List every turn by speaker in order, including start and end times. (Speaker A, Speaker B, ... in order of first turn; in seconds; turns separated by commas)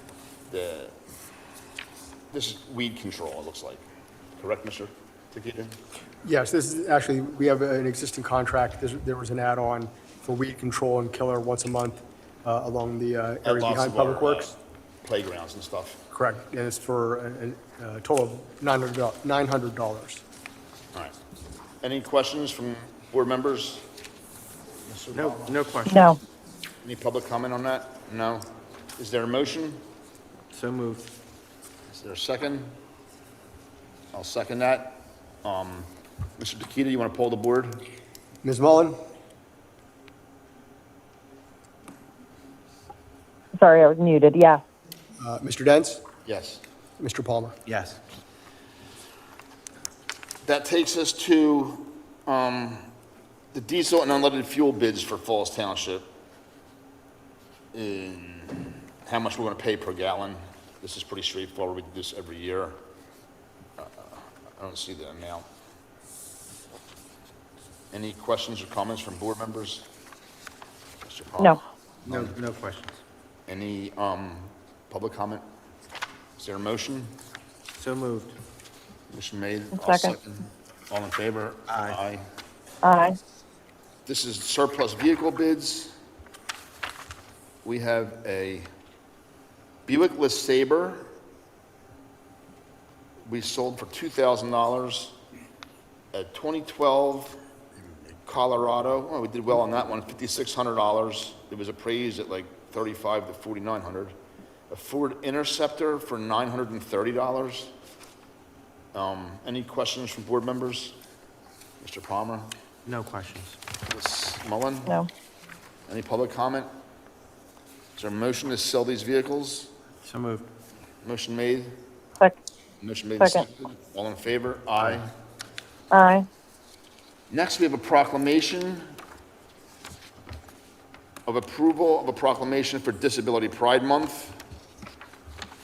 Speaker A: 0.5-0.9, Speaker A: 2.3-3.8, Speaker A: 4.4-5.8, Speaker B: 6.2-14.5, Speaker A: 13.4-16.0, Speaker B: 16.1-20.2, Speaker A: 21.8-23.9, Speaker A: 24.9-25.6, Speaker C: 25.1-26.2, Speaker D: 25.9-26.2, Speaker A: 26.8-29.8, Speaker C: 30.5-31.1, Speaker A: 31.9-32.7, Speaker A: 34.1-37.8, Speaker B: 38.4-39.0, Speaker D: 43.6-44.6, Speaker B: 45.2-46.0, Speaker A: 46.3-46.6, Speaker B: 47.0-47.6, Speaker C: 47.7-48.0, Speaker A: 50.4-52.9, Speaker A: 53.5-56.1, Speaker A: 57.7-62.8, Speaker A: 63.8-65.5, Speaker A: 67.9-69.9, Speaker A: 71.0-72.3, Speaker C: 72.1-73.0, Speaker A: 73.5-75.4, Speaker A: 76.4-77.1, Speaker C: 77.8-78.4, Speaker A: 79.1-82.2, Speaker D: 79.8-80.2, Speaker C: 81.7-82.0, Speaker D: 82.8-83.2, Speaker A: 84.1-85.9, Speaker A: 87.6-88.7, Speaker A: 89.9-91.1, Speaker A: 93.3-95.2, Speaker A: 96.1-97.4, Speaker A: 98.1-104.1, Speaker A: 104.7-107.7, Speaker A: 108.9-111.0, Speaker A: 111.8-112.5, Speaker C: 112.8-113.6, Speaker A: 113.9-115.0, Speaker A: 115.9-116.7, Speaker A: 118.0-119.7, Speaker C: 120.0-120.5, Speaker A: 121.0-121.7, Speaker A: 122.8-125.1, Speaker D: 123.2-123.5, Speaker D: 125.9-126.3, Speaker A: 127.3-128.9, Speaker A: 131.3-134.4